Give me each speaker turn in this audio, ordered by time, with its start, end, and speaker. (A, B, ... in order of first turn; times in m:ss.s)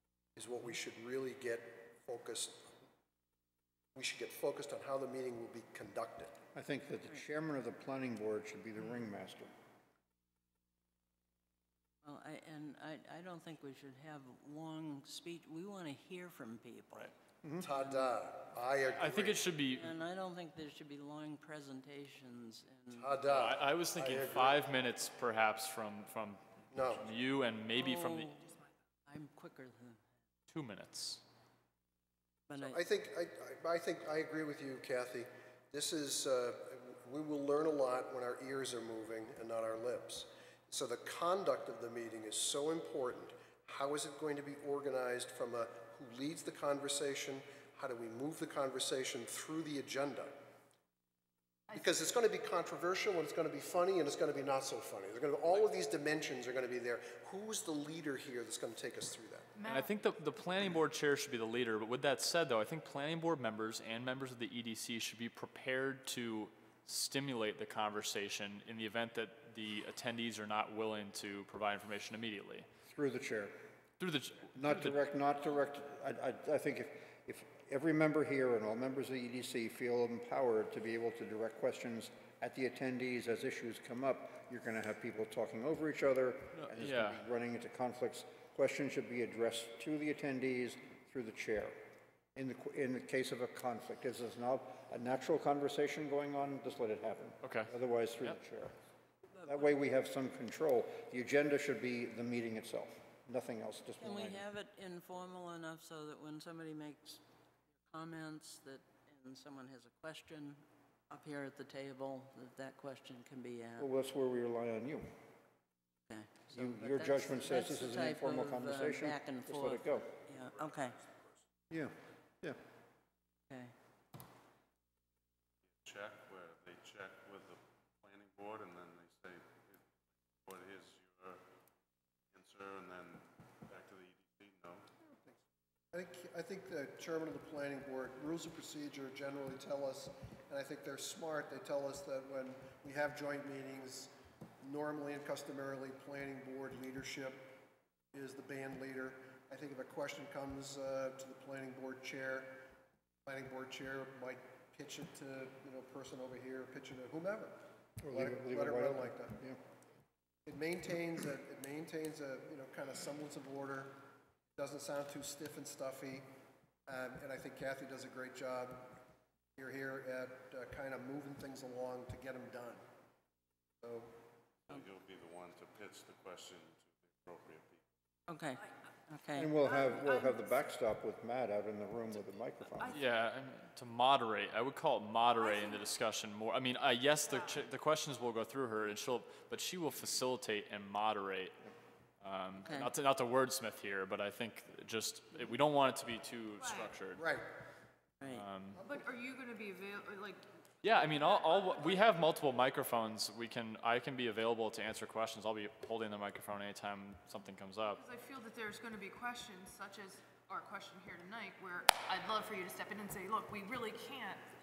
0:00.4-0:02.7 A
0:04.0-0:06.4 A
0:06.5-0:09.5 B
0:12.0-0:17.1 C
0:17.6-0:19.5 A
0:19.0-0:19.9 D
0:19.7-0:23.2 C
0:22.9-0:24.6 A
0:23.3-0:28.4 D
0:26.7-0:27.1 A
0:27.7-0:30.0 C
0:30.5-0:31.2 D
0:32.5-0:32.9 C
0:32.6-0:50.3 A
0:51.8-0:59.5 A
0:59.6-0:59.9 E
0:59.6-1:12.7 D
1:12.9-1:13.5 B
1:14.0-1:15.0 D
1:14.6-1:31.8 B
1:26.6-1:27.2 D
1:32.4-1:38.7 B
1:37.4-1:38.4 D
1:39.4-1:39.7 C
1:39.4-1:44.4 B
1:44.0-1:47.2 C
1:47.7-1:53.9 C
1:53.8-1:55.1 B
1:56.1-2:01.0 C
1:56.5-2:00.1 B
2:01.7-2:02.6 B
2:05.8-2:09.8 F
2:10.4-2:11.4 F
2:12.3-2:14.9 F
2:15.9-2:27.5 A
2:28.1-2:32.6 A
2:33.3-2:37.6 A
2:38.0-2:39.6 B
2:38.1-2:39.4 A
2:40.5-2:44.0 A
2:44.6-2:46.3 A
2:46.9-2:49.0 A
2:49.6-2:52.8 A
2:53.8-2:54.1 A
2:54.7-2:57.9 F
2:58.3-2:59.5 C
2:59.4-3:03.0 B
3:02.9-3:11.5 D
3:12.2-3:17.2 D
3:12.6-3:12.9 C
3:16.6-3:16.9 E
3:17.2-3:17.5 A
3:18.3-3:18.8 D
3:18.8-3:22.1 E
3:20.8-3:28.0 D
3:27.9-3:34.4 E